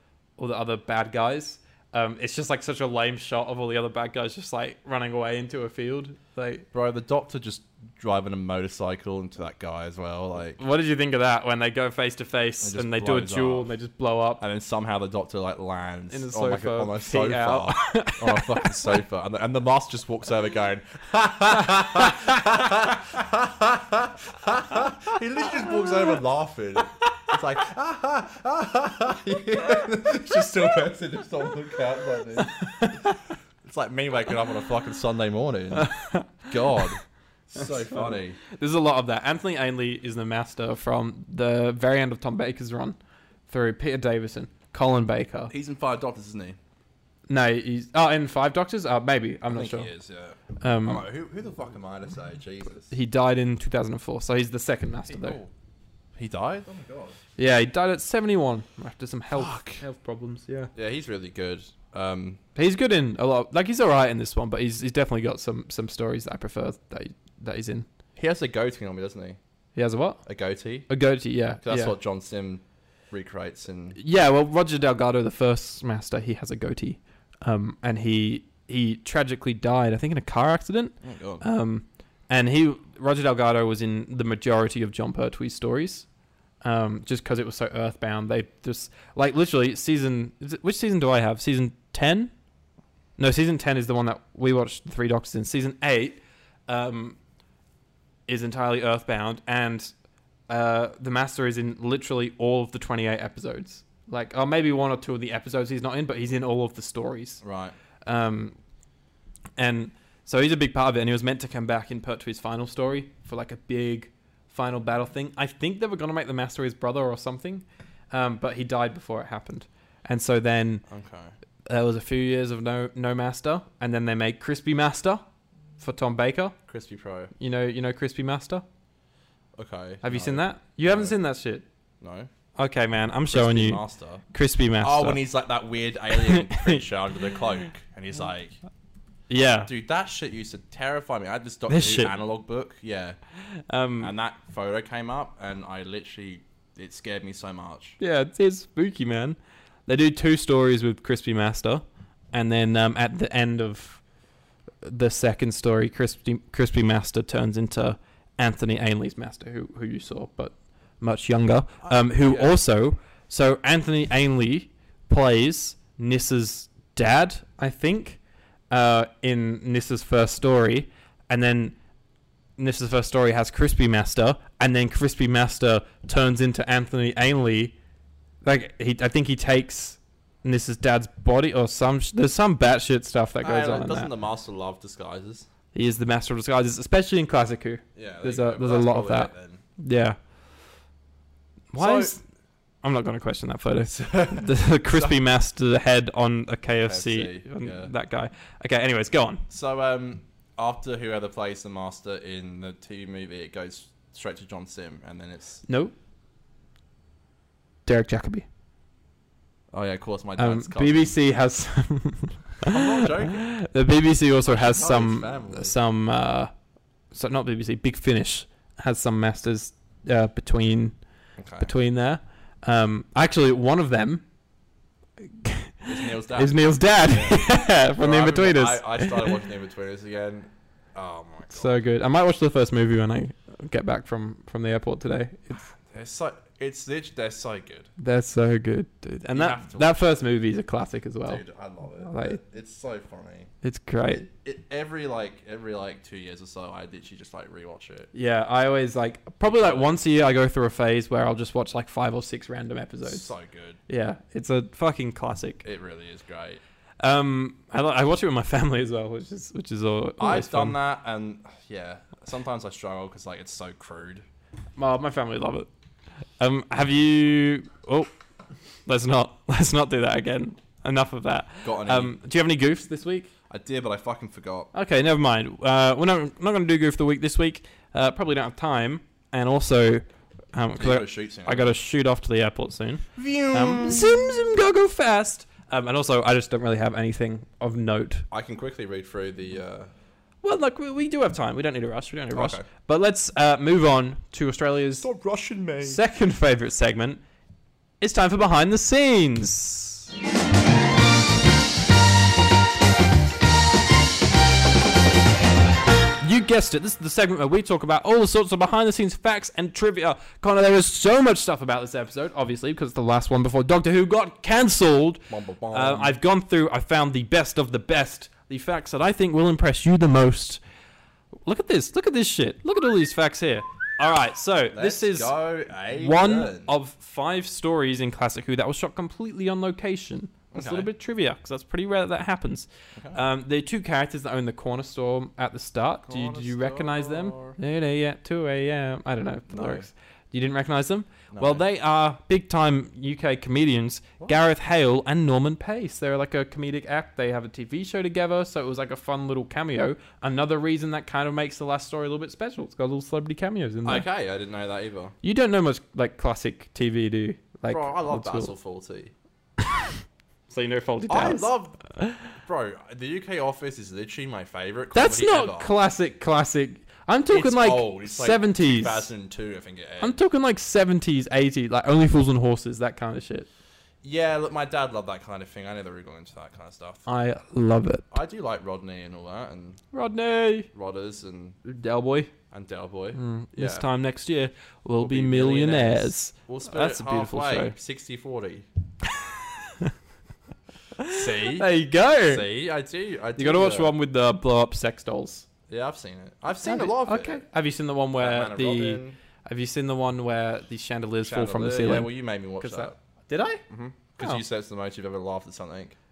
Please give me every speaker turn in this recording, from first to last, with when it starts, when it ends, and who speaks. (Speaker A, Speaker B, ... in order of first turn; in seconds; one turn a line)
Speaker A: 0.4-6.7
Speaker B: 6.7-10.6
Speaker A: 10.6-14.4
Speaker B: 12.6-13.7
Speaker B: 14.4-33.1
Speaker A: 16.1-19.0
Speaker A: 32.4-33.2
Speaker B: 33.6-38.4
Speaker A: 35.7-36.9
Speaker A: 37.9-43.0
Speaker A: 43.5-45.5
Speaker B: 45.5-46.6
Speaker A: 47.3-49.9
Speaker B: 49.5-52.9
Speaker A: 50.6-51.0
Speaker A: 52.9-55.4
Speaker B: 55.1-55.5
Speaker B: 56.2-57.2
Speaker A: 57.4-60.7
Speaker B: 59.3-59.8
Speaker B: 60.7-62.4
Speaker A: 62.5-67.9
Speaker B: 68.2-69.4
Speaker A: 69.7-70.2
Speaker B: 70.3-70.9
Speaker A: 70.9-72.0
Speaker B: 71.6-74.0
Speaker A: 74.0-86.1
Speaker B: 81.0-81.4
Speaker A: 86.6-92.3
Speaker A: 93.2-97.2
Speaker A: 98.3-99.9
Speaker A: 100.5-107.4
Speaker B: 107.4-107.7
Speaker A: 108.0-108.5
Speaker A: 109.6-120.8
Speaker B: 120.9-121.3
Speaker A: 121.7-125.2
Speaker A: 125.8-126.5
Speaker B: 126.7-127.3
Speaker A: 127.4-128.6
Speaker B: 129.6-131.2
Speaker A: 130.0-131.6
Speaker B: 132.0-132.3
Speaker A: 132.6-133.8
Speaker B: 133.3-134.2
Speaker A: 134.3-135.2
Speaker B: 134.8-138.6
Speaker A: 136.1-136.8
Speaker A: 139.3-139.7
Speaker B: 139.7-143.2
Speaker A: 141.7-142.1
Speaker A: 143.5-144.1
Speaker B: 144.0-148.0
Speaker A: 148.0-154.0
Speaker A: 154.8-168.2
Speaker B: 161.9-162.6
Speaker A: 168.7-171.7
Speaker A: 172.6-177.7
Speaker A: 178.4-184.1
Speaker B: 183.4-185.5
Speaker A: 185.7-190.2
Speaker B: 187.9-189.6
Speaker A: 191.7-192.2
Speaker B: 191.7-192.2
Speaker A: 192.8-199.4
Speaker B: 193.9-195.2
Speaker B: 196.8-197.9
Speaker B: 199.5-205.6
Speaker A: 205.7-205.9
Speaker A: 207.9-208.4
Speaker B: 209.7-211.2
Speaker A: 210.4-216.5
Speaker B: 212.6-213.5
Speaker B: 214.4-215.7
Speaker A: 217.1-220.9
Speaker B: 221.4-221.7
Speaker A: 221.6-224.2
Speaker A: 225.2-229.4
Speaker B: 225.9-231.7
Speaker A: 231.5-235.6
Speaker B: 235.8-237.9
Speaker A: 238.0-241.4
Speaker B: 239.3-240.0
Speaker B: 241.3-243.5
Speaker A: 242.0-242.4
Speaker A: 243.6-244.3
Speaker B: 244.1-248.1
Speaker A: 248.1-253.3
Speaker B: 249.4-250.0
Speaker B: 253.0-253.8
Speaker A: 253.9-255.6
Speaker B: 255.6-256.6
Speaker A: 257.0-260.8
Speaker B: 260.2-264.2
Speaker A: 264.8-265.7
Speaker A: 266.4-268.1
Speaker A: 268.9-273.3
Speaker B: 271.6-272.2
Speaker B: 273.5-274.7
Speaker A: 274.7-288.3
Speaker B: 280.8-281.7
Speaker B: 283.1-284.4
Speaker B: 288.3-289.9
Speaker A: 290.4-295.1
Speaker B: 292.3-292.6
Speaker B: 295.0-296.0
Speaker A: 295.8-297.2
Speaker A: 298.0-300.1
Speaker A: 306.2-320.6
Speaker B: 315.3-316.2
Speaker A: 321.4-325.3
Speaker B: 324.7-326.7
Speaker A: 325.9-354.1
Speaker B: 330.5-330.9
Speaker B: 332.9-333.2
Speaker B: 336.1-337.6
Speaker B: 339.5-339.9
Speaker B: 341.3-341.6
Speaker B: 353.9-355.1
Speaker A: 355.2-358.5
Speaker B: 357.7-359.1
Speaker A: 360.5-362.3
Speaker B: 361.1-361.8
Speaker B: 362.4-365.7
Speaker A: 364.9-369.1
Speaker B: 367.3-370.2
Speaker A: 370.0-373.5
Speaker B: 374.0-377.1
Speaker A: 377.1-378.1
Speaker B: 378.1-379.8
Speaker A: 379.9-380.7
Speaker B: 380.7-381.6
Speaker A: 381.6-382.3
Speaker B: 382.5-383.9
Speaker A: 383.1-387.7
Speaker B: 385.0-388.7
Speaker A: 389.0-389.9
Speaker A: 391.0-392.4
Speaker B: 391.1-391.7
Speaker B: 392.2-393.9
Speaker A: 393.4-395.4
Speaker B: 395.7-397.4
Speaker A: 396.6-403.6
Speaker B: 398.2-399.2
Speaker B: 401.2-402.9
Speaker B: 403.7-406.0